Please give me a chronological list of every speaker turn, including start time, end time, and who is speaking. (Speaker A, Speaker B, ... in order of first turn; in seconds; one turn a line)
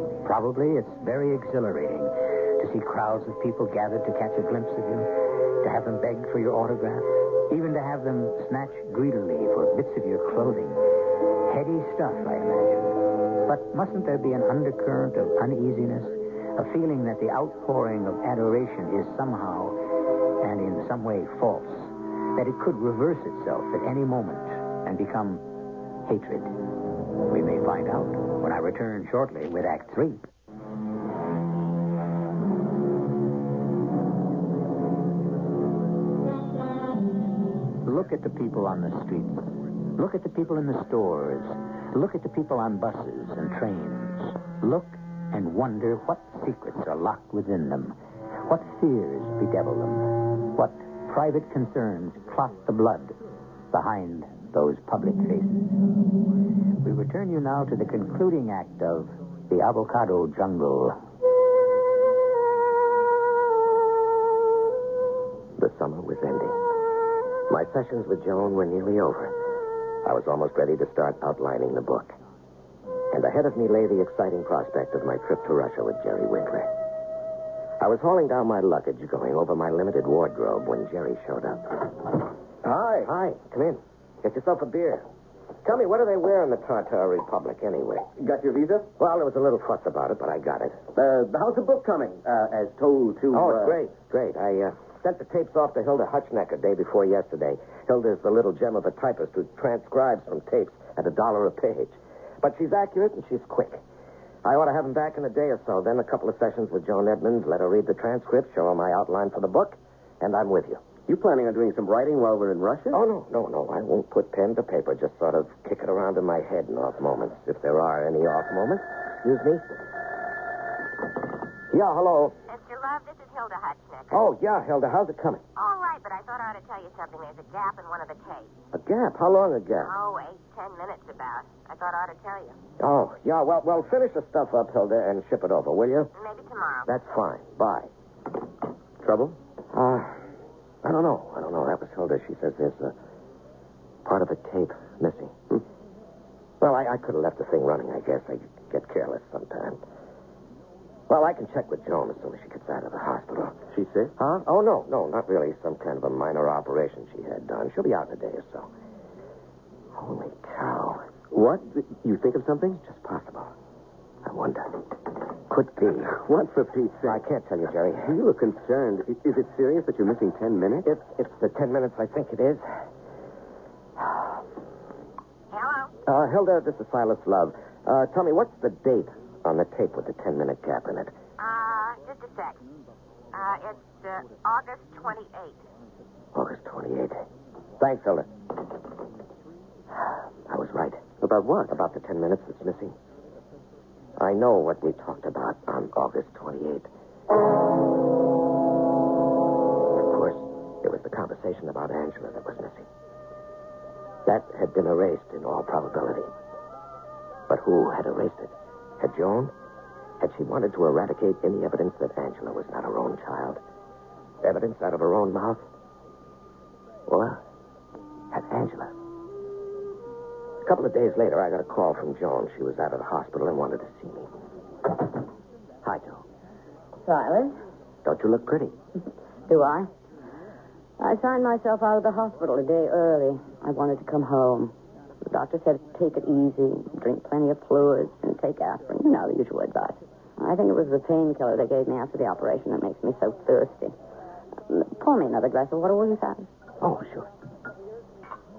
Speaker A: 0.2-25.5
Speaker A: 26.0-26.6
Speaker A: 27.2-30.3
Speaker A: 37.8-53.2
Speaker A: 53.7-55.8
Speaker A: 56.8-61.0
Speaker B: 65.6-66.6
Speaker B: 67.5-69.3
Speaker B: 70.0-72.2
Speaker B: 73.1-76.7
Speaker B: 77.8-82.1
Speaker C: 82.6-83.1
Speaker B: 83.0-85.0
Speaker B: 85.6-88.1
Speaker C: 88.2-88.9
Speaker B: 89.0-90.8
Speaker C: 90.9-93.8
Speaker B: 93.3-103.8
Speaker B: 104.4-110.9
Speaker C: 111.1-113.0
Speaker B: 112.9-119.7
Speaker B: 121.7-122.3
Speaker D: 122.5-124.1
Speaker B: 124.1-125.4
Speaker D: 125.6-128.5
Speaker B: 128.7-129.9
Speaker D: 129.8-132.6
Speaker B: 132.8-136.1
Speaker D: 136.2-136.9
Speaker B: 136.9-137.9
Speaker C: 139.0-139.4
Speaker B: 139.7-140.2
Speaker B: 140.8-142.9
Speaker B: 144.1-145.6
Speaker B: 146.6-149.8
Speaker B: 151.1-153.6
Speaker C: 153.7-154.1
Speaker B: 154.2-158.7
Speaker B: 160.0-161.1
Speaker C: 161.3-162.8
Speaker B: 162.8-163.5
Speaker B: 164.2-164.8
Speaker B: 165.5-166.2
Speaker C: 166.0-167.2
Speaker B: 167.1-168.2
Speaker C: 168.0-170.9
Speaker B: 170.8-172.7
Speaker D: 175.6-175.9
Speaker B: 176.1-181.1
Speaker D: 181.4-182.6
Speaker D: 183.3-185.5
Speaker B: 186.3-187.2
Speaker B: 187.8-188.3
Speaker B: 190.5-191.0
Speaker C: 191.2-191.8
Speaker B: 191.7-192.9
Speaker B: 194.2-196.9
Speaker B: 200.0-202.9
Speaker B: 204.3-206.3
Speaker B: 207.5-209.5
Speaker B: 210.2-213.6
Speaker B: 214.4-215.6
Speaker B: 217.1-217.4
Speaker B: 218.3-218.9
Speaker B: 220.6-224.3
Speaker B: 225.8-226.2
Speaker E: 227.1-227.6
Speaker B: 228.1-228.8
Speaker E: 229.5-229.9
Speaker E: 231.0-234.7
Speaker E: 235.3-243.9
Speaker E: 244.7-246.5
Speaker B: 246.8-247.3